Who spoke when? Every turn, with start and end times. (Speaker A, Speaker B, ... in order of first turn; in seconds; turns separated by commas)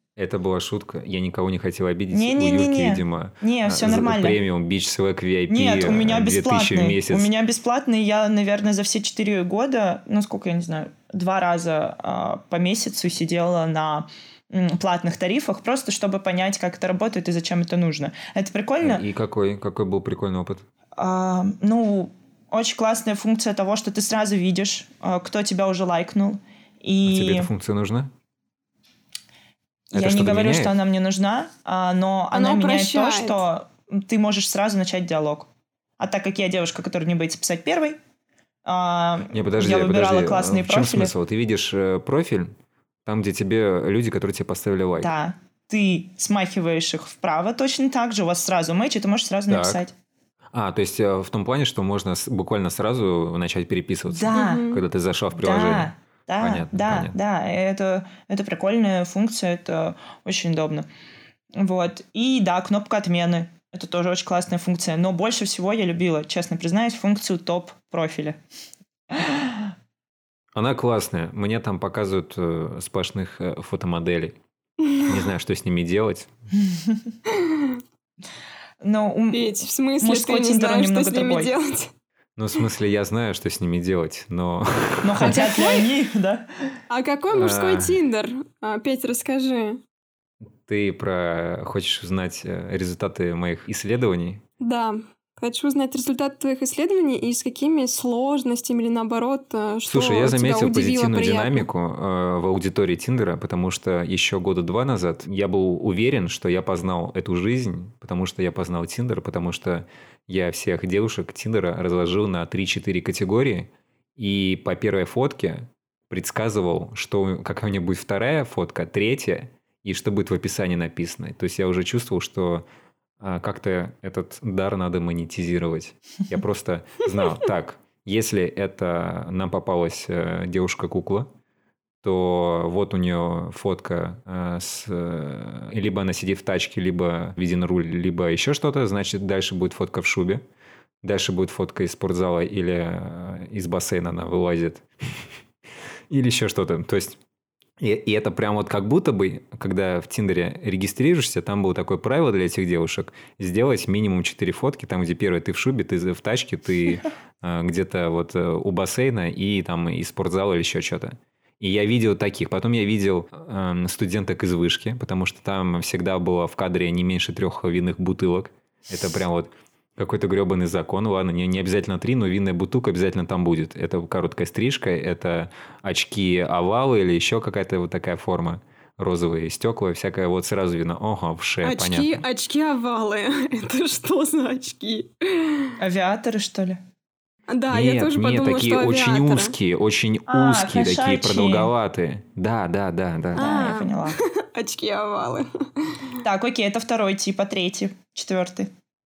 Speaker A: 0.2-7.3, Speaker B: 2.1-4.4, Speaker B: 5.5-19.0, Speaker A: 18.8-20.6, Speaker B: 20.9-27.5, Speaker A: 27.0-28.1, Speaker B: 29.9-38.0, Speaker A: 29.9-30.8, Speaker C: 32.3-33.4, Speaker B: 38.6-41.1, Speaker A: 39.3-42.5, Speaker A: 43.0-45.1, Speaker B: 45.0-49.9, Speaker A: 49.5-49.8, Speaker A: 50.5-57.1, Speaker B: 54.0-54.7, Speaker C: 54.3-54.8, Speaker B: 55.3-60.9, Speaker B: 61.5-68.4, Speaker B: 69.1-69.7, Speaker A: 70.5-74.3, Speaker A: 75.0-76.3, Speaker B: 76.5-77.1, Speaker C: 77.3-77.8, Speaker B: 78.8-81.5, Speaker C: 79.3-81.9, Speaker A: 82.4-85.4, Speaker B: 85.0-86.8, Speaker C: 85.2-85.9, Speaker C: 86.9-89.8, Speaker A: 87.3-88.0, Speaker A: 90.7-94.4, Speaker C: 94.6-101.7, Speaker A: 99.9-122.7, Speaker A: 123.2-131.3, Speaker A: 132.0-140.4, Speaker A: 141.0-145.2, Speaker A: 146.1-147.2, Speaker A: 147.8-182.2, Speaker C: 181.6-185.8, Speaker B: 185.8-186.8, Speaker C: 187.5-189.6, Speaker A: 187.7-193.7, Speaker B: 190.3-191.7, Speaker B: 193.3-194.2, Speaker C: 193.3-196.2, Speaker B: 196.2-198.7